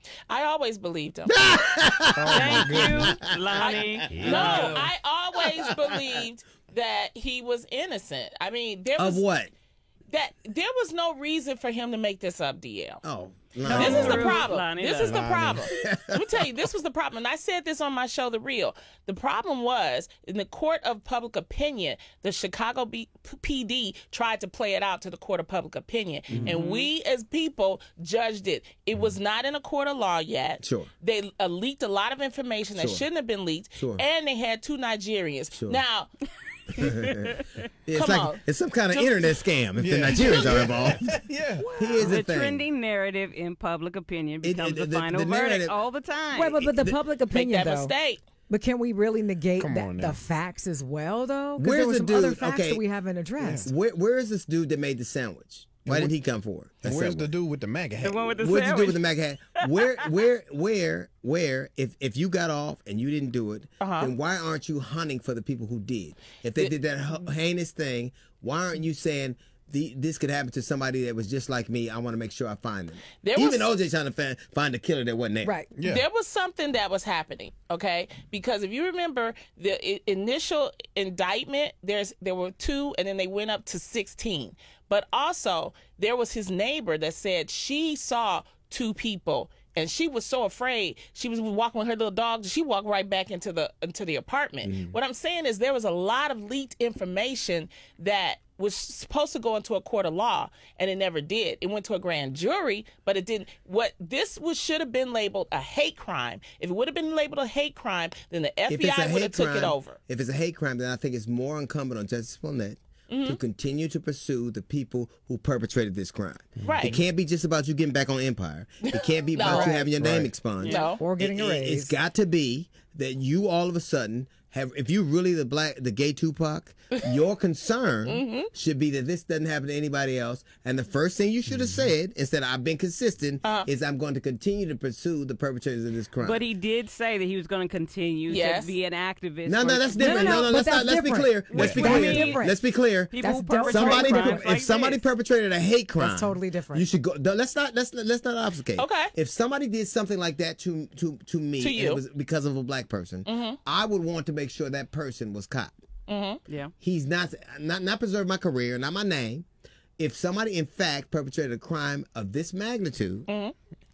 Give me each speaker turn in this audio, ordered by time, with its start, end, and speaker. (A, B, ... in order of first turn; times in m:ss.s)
0:00.3-0:01.6 A
0:01.3-0:03.1 B
0:02.1-0:03.2 C
0:02.3-0:04.8 D
0:03.6-0:09.2 A
0:04.1-0:04.9 C
0:04.1-0:04.8 B
0:09.0-0:09.5 B
0:10.1-0:13.0 A
0:13.0-0:14.4 B
0:13.7-0:15.6 D
0:13.7-0:36.1 A
0:13.7-0:14.3 C
0:15.0-0:15.6 C
0:15.6-0:16.3 B
0:26.3-0:26.6 B
0:26.4-0:26.9 D
0:30.6-0:30.9 B
0:32.8-0:33.0 B
0:33.8-0:34.0 B
0:35.5-0:35.8 B
0:36.7-0:41.2 B
0:36.8-0:37.3 D
0:37.9-0:38.4 A
0:39.8-0:41.8 C
0:41.6-0:42.0 E
0:41.7-0:42.6 B
0:42.0-0:46.6 D
0:44.4-0:45.8 B
0:46.3-0:47.9 E
0:46.5-0:47.0 B
0:47.3-0:48.2 A
0:48.5-0:53.7 E
0:49.6-0:50.2 C
0:51.6-0:52.8 B
0:53.4-0:53.7 C
0:53.6-0:57.3 B
0:55.8-0:56.1 C
0:56.8-0:58.4 C
0:58.0-0:59.1 D
0:58.4-1:15.6 B
1:03.8-1:04.1 A
1:13.2-1:13.7 A
1:15.4-1:15.7 E
1:15.7-1:16.0 C
1:15.8-1:50.0 A
1:34.6-1:34.9 B
1:48.7-2:16.5 B
1:53.1-1:53.4 A
1:56.6-1:57.0 A
1:58.8-1:59.8 A
1:59.4-1:59.9 E
2:00.0-2:00.4 C
2:00.6-2:01.0 D
2:00.6-2:01.0 A
2:01.0-2:02.0 E
2:08.0-2:08.5 A
2:16.2-2:20.2 D
2:18.3-2:18.7 A
2:19.4-2:35.8 B
2:20.0-2:22.6 E
2:20.2-2:20.5 A
2:21.5-2:22.5 D
2:21.5-2:22.3 C
2:23.0-2:25.0 D
2:23.2-2:24.4 E
2:26.0-2:26.9 E
2:28.8-2:29.1 A
2:31.6-2:32.0 A
2:33.2-2:33.6 A
2:36.1-2:36.4 A
2:36.4-2:36.7 D
2:36.8-2:39.4 B
2:40.0-2:43.3 B
2:43.3-2:43.5 A